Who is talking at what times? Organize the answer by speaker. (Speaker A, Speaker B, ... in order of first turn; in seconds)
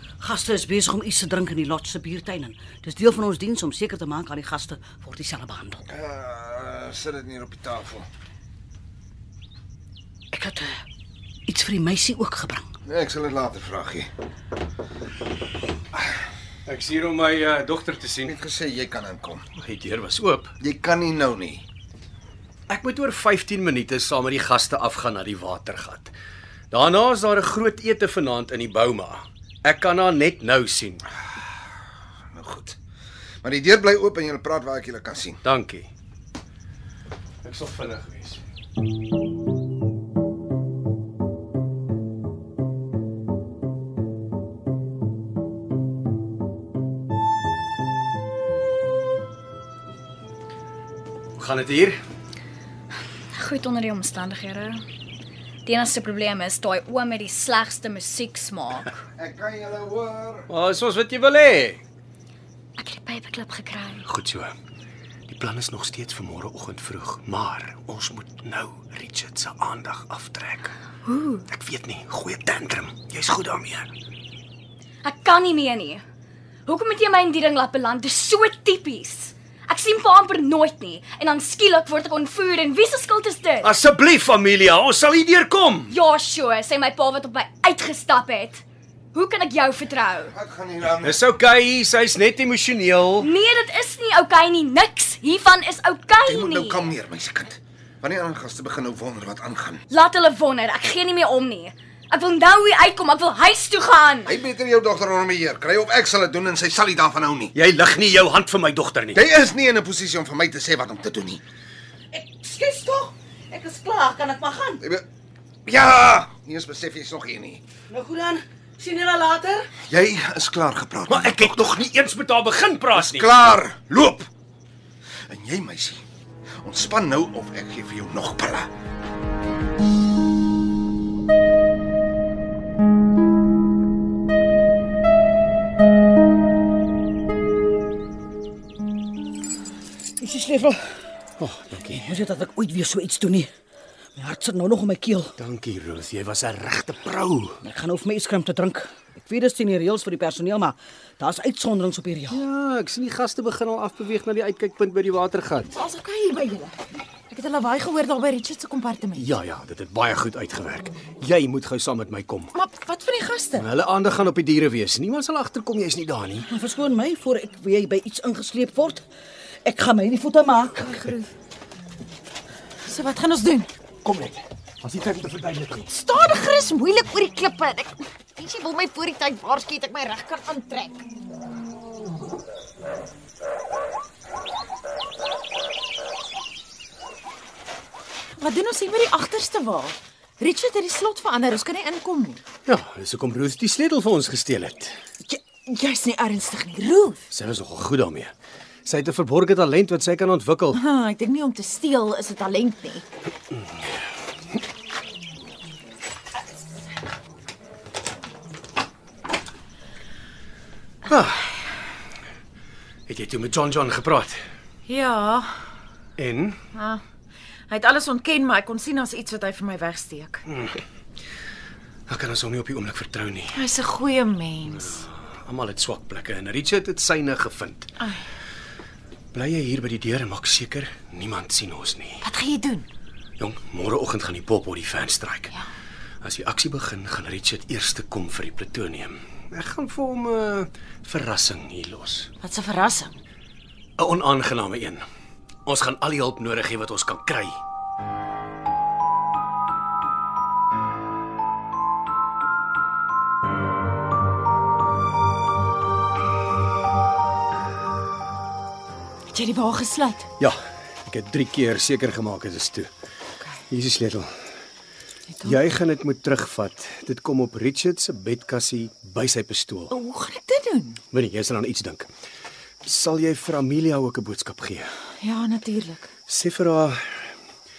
Speaker A: 0.2-5.8, 10.3-10.8, 11.5-12.7, 112.1-114.8, 117.9-119.7, 140.2-141.0, 141.9-143.5, 144.2-145.3, 147.6-152.4, 166.5-169.0, 169.7-171.0
Speaker B: 5.9-8.1, 12.9-14.1, 18.2-19.4, 20.6-21.6, 32.3-32.8, 33.4-35.4, 59.2-60.5, 90.3-91.2, 96.3-99.8, 104.3-107.5, 109.1-111.4, 115.7-117.6, 119.9-121.8, 122.9-124.3, 125.3-126.0, 126.6-128.7
Speaker C: 16.7-18.4, 19.6-20.5, 22.7-26.1, 26.7-31.1, 35.4-35.9, 37.4-38.4, 51.4-52.0, 60.5-61.8, 64.0-64.5, 65.3-70.8, 71.5-73.9, 83.6-85.9, 90.9-93.3, 107.5-109.2, 121.1-123.6, 141.4-142.1, 145.4-147.6, 152.3-155.8, 159.2-162.6, 163.6-166.5, 174.0-175.9, 192.7-195.0, 197.3-198.3, 198.9-200.8, 211.1-211.5, 213.1-214.4, 216.2-216.6, 220.5-220.8, 222.1-223.6, 224.7-227.9, 229.3-232.2, 233.4-235.6, 236.2-242.3, 244.0-245.0, 245.7-247.6, 260.4-262.9, 263.7-264.3, 265.4-269.9, 271.1-272.1, 272.8-274.9, 276.3-277.3
Speaker D: 53.3-54.8, 55.7-58.9, 62.8-64.1, 71.1-71.5, 75.0-76.0, 76.7-83.7, 85.9-88.6, 89.1-90.3, 93.2-96.9, 99.9-104.3
Speaker E: 155.7-159.2, 162.6-163.7, 170.8-171.3, 172.9-173.7, 175.9-181.0, 188.4-192.4, 195.2-197.2, 200.7-203.1, 214.9-215.5, 216.7-217.0, 217.7-220.4, 223.5-225.1, 232.2-232.9, 242.4-243.1, 259.3-260.3, 269.9-271.0, 275.2-276.1